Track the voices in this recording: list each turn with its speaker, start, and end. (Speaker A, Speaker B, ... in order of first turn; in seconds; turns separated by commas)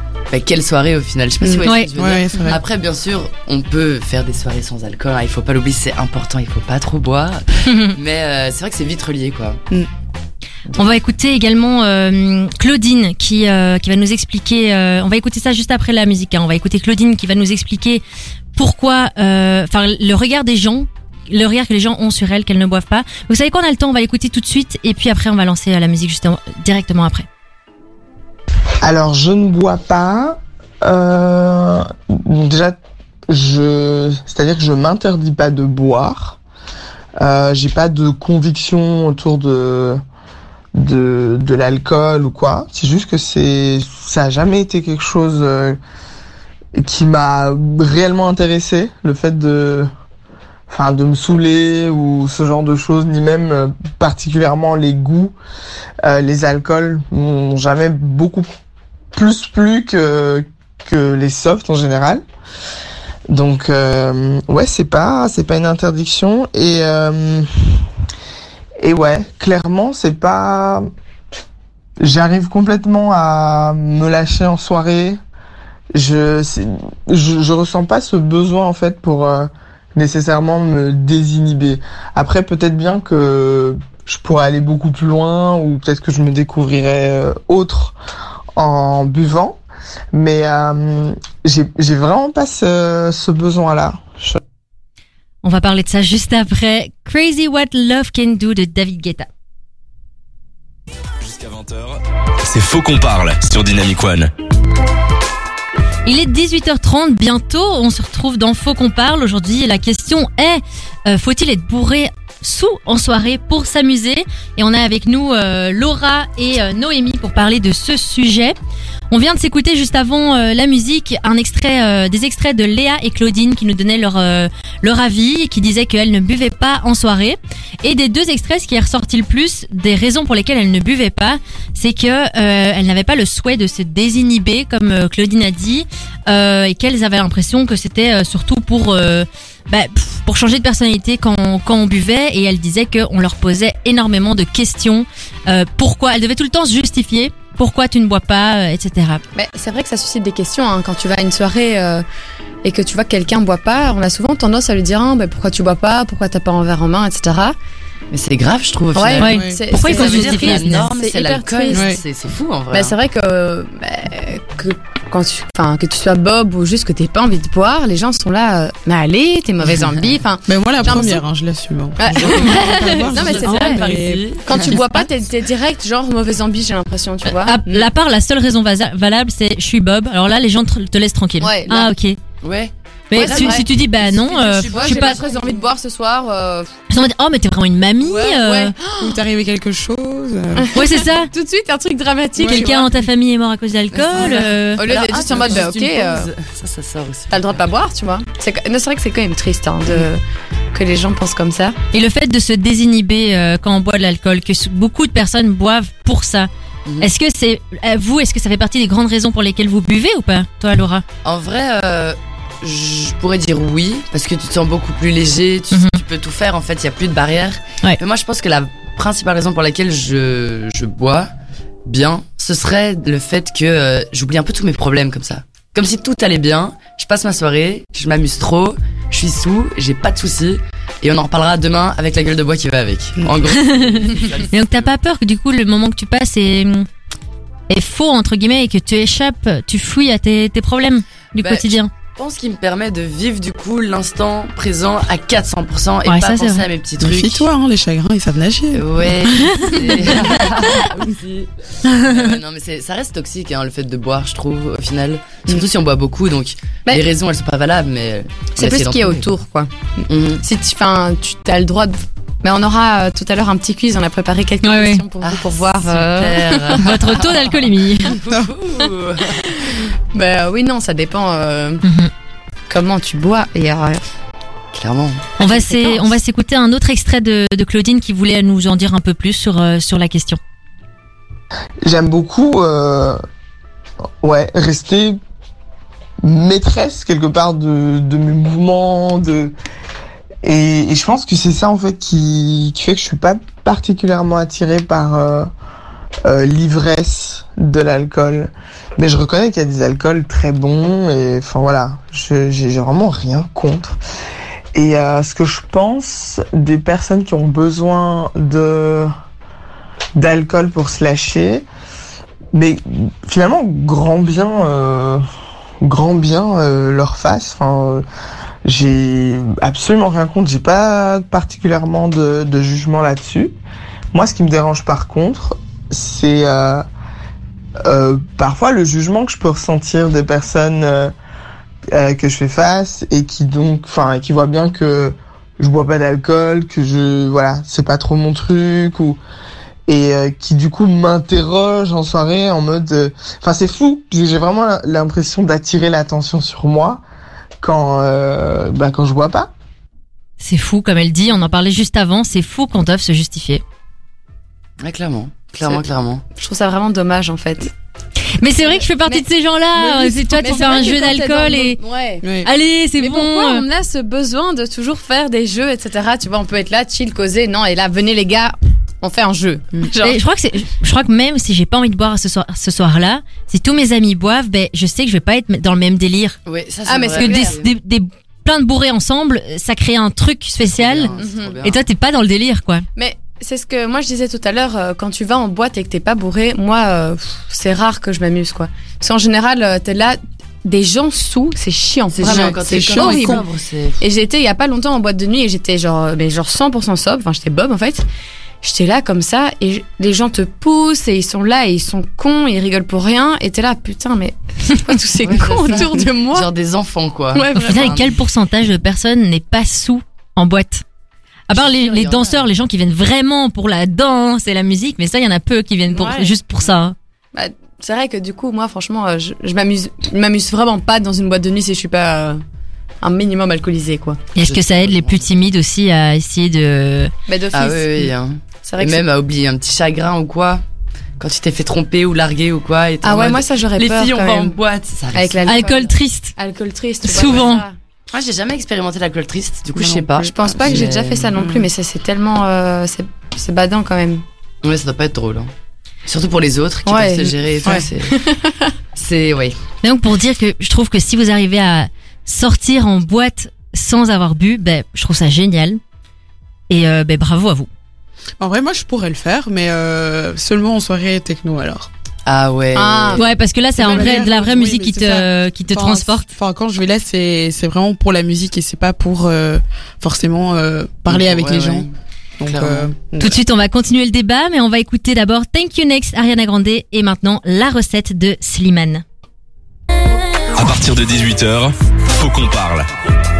Speaker A: 0.3-9.6, Speaker B: 1.4-2.6, Speaker C: 7.7-7.9, Speaker C: 10.8-18.0, Speaker C: 18.6-27.3, Speaker D: 28.8-36.4, Speaker D: 37.2-40.0, Speaker D: 40.8-45.8, Speaker D: 46.8-49.9, Speaker D: 50.7-55.4, Speaker D: 56.0-58.5, Speaker D: 59.1-62.2, Speaker D: 63.3-67.8, Speaker D: 68.8-70.9, Speaker D: 72.0-75.2, Speaker D: 75.9-88.0, Speaker D: 88.5-89.6, Speaker D: 90.1-94.4, Speaker C: 95.4-99.3, Speaker E: 101.2-104.3, Speaker C: 106.1-118.6, Speaker C: 119.1-149.2, Speaker F: 149.3-152.1, Speaker F: 152.6-157.6, Speaker A: 158.1-162.9, Speaker F: 158.9-162.0, Speaker C: 159.2-160.9, Speaker B: 159.3-159.6, Speaker F: 162.7-171.2, Speaker B: 170.5-174.8, Speaker F: 172.0-177.6, Speaker A: 172.2-174.8, Speaker C: 172.4-173.7, Speaker C: 177.3-182.2, Speaker F: 181.4-181.9, Speaker A: 182.4-185.6, Speaker C: 183.1-185.2, Speaker F: 183.1-186.7, Speaker C: 186.9-188.8, Speaker F: 188.0-189.2, Speaker B: 189.0-190.7, Speaker F: 190.6-192.9, Speaker C: 190.7-191.3, Speaker B: 192.4-192.7, Speaker C: 192.5-194.8, Speaker F: 194.2-196.3, Speaker A: 194.2-197.7, Speaker F: 197.3-200.2, Speaker F: 200.7-201.8, Speaker C: 201.9-206.5, Speaker C: 207.0-211.0, Speaker A: 211.2-221.3, Speaker C: 215.7-216.0, Speaker A: 221.9-234.9, Speaker C: 233.5-236.9, Speaker C: 237.7-241.9, Speaker A: 241.4-247.5, Speaker C: 246.1-246.6, Speaker B: 247.0-248.9, Speaker A: 248.7-259.3, Speaker C: 249.3-250.3, Speaker F: 258.6-259.7, Speaker A: 260.1-260.4, Speaker F: 260.4-266.8, Speaker C: 264.6-265.0, Speaker A: 265.2-269.4, Speaker C: 266.7-268.2, Speaker F: 270.1-271.8, Speaker C: 271.8-272.1, Speaker F: 272.7-274.0, Speaker A: 274.7-275.3, Speaker C: 275.4-280.4, Speaker F: 275.4-276.1, Speaker D: 281.8-283.2, Speaker D: 284.2-285.2, Speaker D: 286.2-289.5, Speaker D: 290.4-295.5, Speaker D: 296.2-304.0, Speaker D: 304.7-309.1, Speaker D: 310.2-311.7, Speaker D: 312.5-315.2, Speaker D: 315.8-318.0, Speaker D: 318.6-323.6, Speaker D: 324.1-326.8, Speaker D: 327.8-331.1, Speaker D: 331.9-339.2, Speaker D: 339.9-347.0, Speaker D: 347.6-349.5, Speaker C: 350.4-353.6, Speaker A: 354.8-356.2, Speaker F: 356.4-357.7, Speaker C: 358.4-361.8, Speaker F: 358.6-359.3, Speaker B: 359.8-360.8, Speaker F: 360.2-362.3, Speaker B: 362.2-362.5, Speaker C: 362.4-363.6, Speaker F: 363.0-370.2, Speaker C: 370.0-376.4, Speaker A: 376.5-377.6, Speaker F: 376.9-377.6, Speaker C: 377.2-381.1, Speaker A: 380.7-381.8, Speaker F: 381.2-381.6, Speaker C: 381.6-382.9, Speaker F: 383.0-393.4, Speaker A: 392.1-394.0, Speaker B: 392.2-393.4, Speaker F: 394.0-398.1, Speaker F: 398.6-406.5, Speaker A: 405.2-408.1, Speaker F: 407.3-408.0, Speaker C: 407.6-410.8, Speaker C: 411.5-416.9, Speaker A: 411.5-412.5, Speaker F: 415.9-416.3, Speaker F: 417.3-422.4, Speaker F: 423.0-424.2, Speaker C: 424.4-427.1, Speaker A: 424.4-425.3, Speaker F: 427.3-428.1, Speaker A: 427.5-430.6, Speaker F: 428.6-429.0, Speaker A: 431.2-435.9, Speaker F: 433.0-434.6, Speaker F: 435.1-437.8, Speaker C: 435.5-436.3, Speaker C: 437.0-437.6, Speaker A: 437.1-437.4, Speaker A: 438.1-441.4, Speaker B: 439.8-441.7, Speaker F: 440.2-444.2, Speaker A: 444.6-445.5, Speaker A: 446.1-448.1, Speaker F: 446.9-448.7, Speaker A: 448.9-449.6, Speaker C: 449.8-455.8, Speaker C: 456.7-457.7, Speaker B: 458.4-461.9, Speaker A: 462.3-463.2, Speaker F: 462.7-463.2, Speaker C: 463.2-466.3, Speaker B: 463.8-471.9, Speaker A: 471.1-471.9, Speaker B: 472.4-473.4, Speaker A: 472.5-472.9, Speaker C: 473.2-479.0, Speaker E: 480.6-482.9